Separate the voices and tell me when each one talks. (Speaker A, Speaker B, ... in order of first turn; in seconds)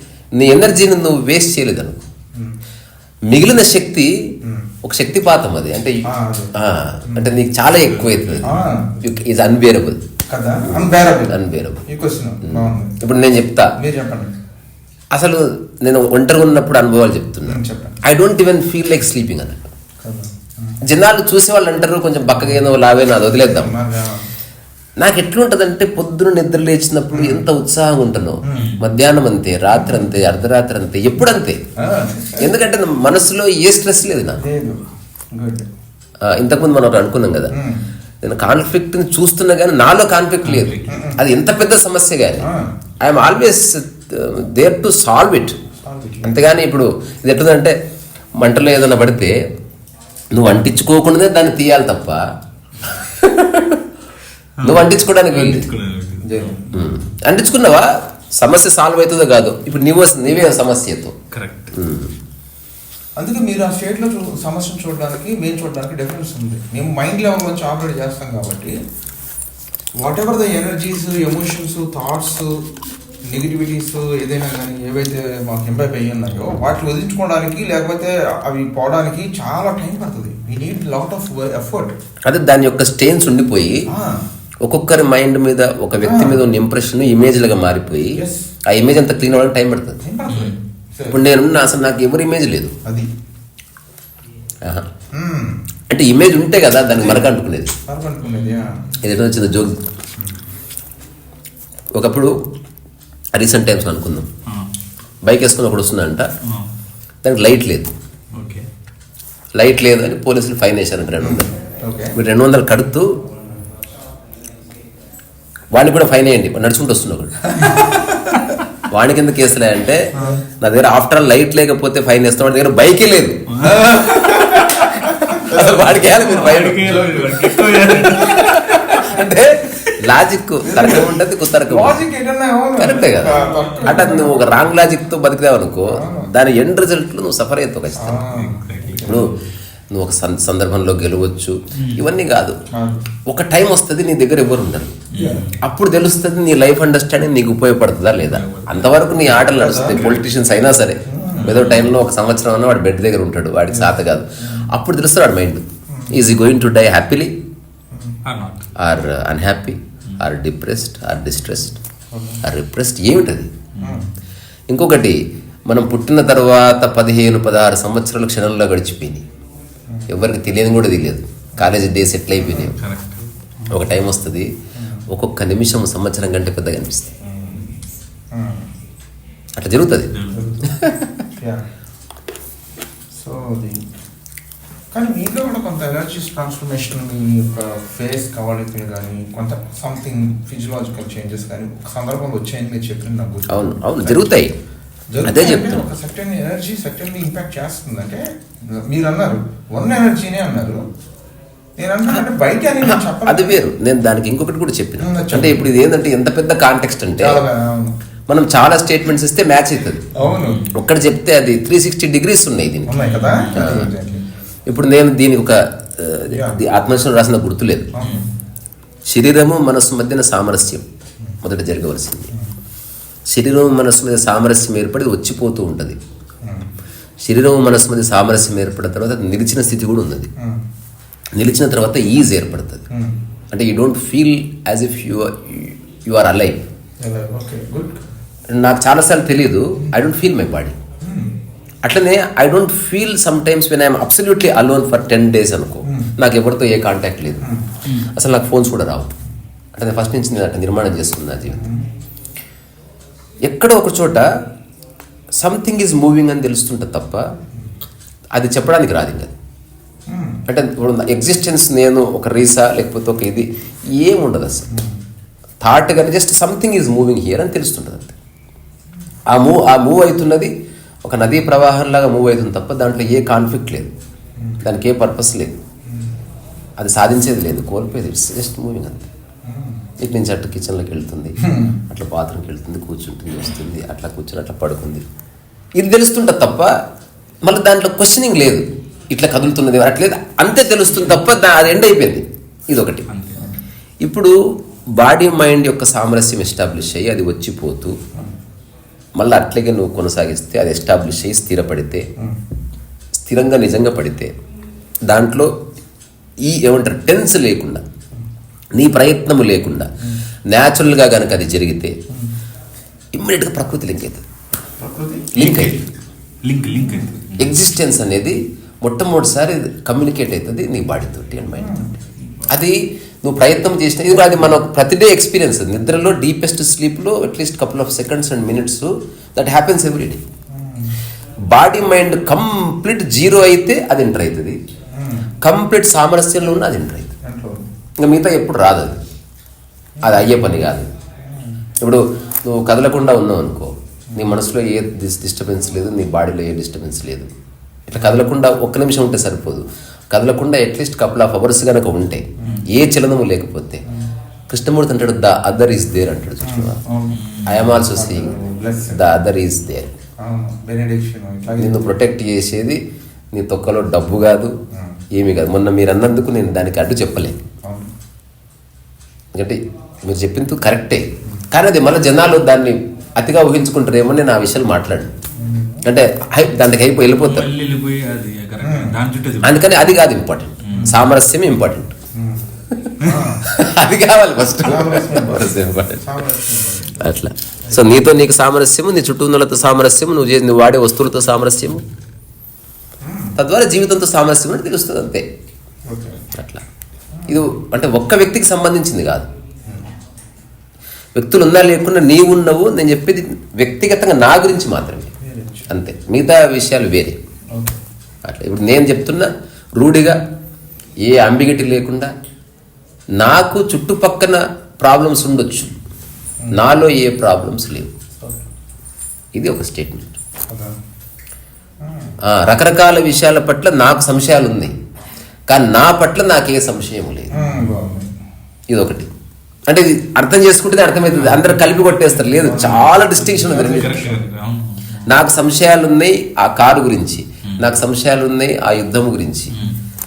Speaker A: 0.3-2.0, 3.3-4.3, 4.8-10.0, 10.6-11.9, 12.4-13.8, 15.1-19.7, 20.8-23.7, 25.0-31.6, 32.4-34.4, 36.2-37.6, 38.2-45.6, 46.2-47.8, 48.4-49.4, 50.3-52.2, 52.8-53.9, 54.6-55.7, 56.7-61.2, 61.7-62.1, 82.2-83.9, 84.6-90.0, 91.1-92.7, 95.9-97.7, 99.0-99.8, 102.0-102.3, 103.3-104.3, 105.2-106.3, 107.2-107.9, 109.5-111.5, 112.1-113.1, 115.7-117.9, 118.9-123.5, 124.1-132.0, 132.8-138.3, 139.0-139.3, 139.9-142.6, 143.2-145.0, 145.6-157.3, 158.8-161.8, 162.4-163.5, 164.7-169.2, 170.1-172.8, 173.7-174.5, 175.1-177.1, 179.6-180.1, 180.7-181.2, 193.5-194.5, 195.2-195.8, 202.8-207.4, 208.3-210.1, 210.7-213.9, 214.7-217.9, 219.1-220.9, 221.4-222.3, 223.3-226.0, 227.2-230.3, 231.3-232.8, 233.5-236.6, 238.5-240.8, 241.8-249.1, 249.8-251.7, 253.4-254.3, 255.4-257.2, 258.3-259.3, 260.5-264.7, 265.6-268.1, 269.3-270.5, 271.0-273.9, 274.6-275.6, 276.8-279.1, 280.0-285.1, 285.8-286.8, 287.4-293.1, 294.0-294.4, 294.9-298.0, 299.2-302.1, 303.2-304.3, 305.1-305.5, 306.4-307.8, 308.8-309.9, 310.5-312.0, 313.1-314.2, 315.4-315.8, 317.4-321.9, 322.5-330.2, 331.4-334.6, 335.4-337.1, 338.0-339.0, 340.0-340.9, 341.8-347.3, 347.9-353.9, 354.5-356.8, 357.5-358.4, 358.9-359.9, 361.6-362.8, 363.3-364.5, 365.1-367.4, 369.4-375.1, 375.8-377.5, 379.4-382.0, 382.8-386.2, 387.0-391.8, 393.4-395.3, 396.3-396.6, 397.3-399.3, 401.1-405.1, 405.7-407.2, 408.2-410.2, 411.0-412.1, 413.2-415.7, 416.5-417.9, 419.4-420.1, 422.2-424.7, 425.5-427.5, 428.7-429.1, 429.7-434.1, 435.1-439.6
Speaker B: 4.4-4.7, 6.0-6.5, 7.1-7.3, 8.4-8.9, 10.3-13.0, 13.8-14.3, 17.4-18.0, 20.0-20.8, 22.4-22.6, 23.4-24.2, 27.1-27.5, 28.4-28.8, 29.7-30.2, 31.8-32.5, 34.4-35.7, 37.5-37.9, 40.9-41.2, 42.4-42.8, 45.8-46.5, 56.2-56.7, 63.1-68.8, 70.0-72.7, 73.2-82.0, 83.9-84.2, 86.0-86.4, 88.1-88.5, 90.0-91.2, 92.8-93.1, 95.1-95.6, 96.9-97.3, 97.9-99.0, 111.2-112.2, 120.1-120.4, 123.6-124.8, 130.6-134.5, 135.9-136.3, 138.0-139.3, 142.7-143.1, 145.1-145.5, 149.5-150.1, 151.0-151.6, 153.7-154.7, 155.9-156.2, 157.9-158.2, 162.1-162.4, 163.8-164.1, 172.3-172.7, 174.8-175.0, 177.2-178.7, 180.3-180.7, 181.3-181.6, 183.1-183.9, 184.9-194.3, 195.1-200.9, 201.8-203.7, 205.0-205.7, 207.2-208.0, 210.1-210.7, 212.9-214.3, 216.3-216.6, 217.9-218.3, 226.4-226.8, 230.4-230.7, 232.9-233.2, 237.0-238.0, 241.0-241.4, 245.8-246.1, 247.4-247.7, 251.6-251.9, 260.1-260.4, 264.7-265.0, 275.9-276.1, 279.4-279.9, 281.4-281.8, 312.1-312.4, 314.8-315.4, 316.8-317.1, 321.5-322.0, 330.5-331.0, 334.9-335.3, 337.2-337.7, 340.0-340.6, 341.2-341.6, 347.9-348.2, 352.4-352.6, 356.4-359.1, 360.2-361.8, 364.7-365.0, 367.6-367.9, 375.3-375.9, 378.6-379.0, 380.7-381.0, 382.1-383.5, 384.6-387.9, 393.0-393.4, 395.9-396.2, 397.1-397.4, 405.2-405.7, 407.5-407.8, 420.5-420.8, 421.8-422.2, 427.3-428.2, 432.4-434.2
Speaker C: 7.7-8.6, 28.5-28.8, 40.4-41.1, 54.6-56.7, 61.3-61.7, 90.3-90.6, 98.2-98.8, 104.5-104.7, 106.4-106.7, 108.3-108.7, 117.7-118.6, 123.5-129.0, 133.3-134.2, 138.3-139.4, 141.8-142.0, 145.1-145.6, 148.3-150.2, 151.4-151.9, 158.2-158.7, 163.7-164.1, 172.6-174.0, 180.1-180.5, 210.2-210.7, 213.0-214.1, 218.0-218.3, 293.1-293.5, 315.4-315.9, 316.4-317.6, 357.1-357.8, 377.2-379.9, 380.6-381.0, 431.1-435.1, 439.5-439.8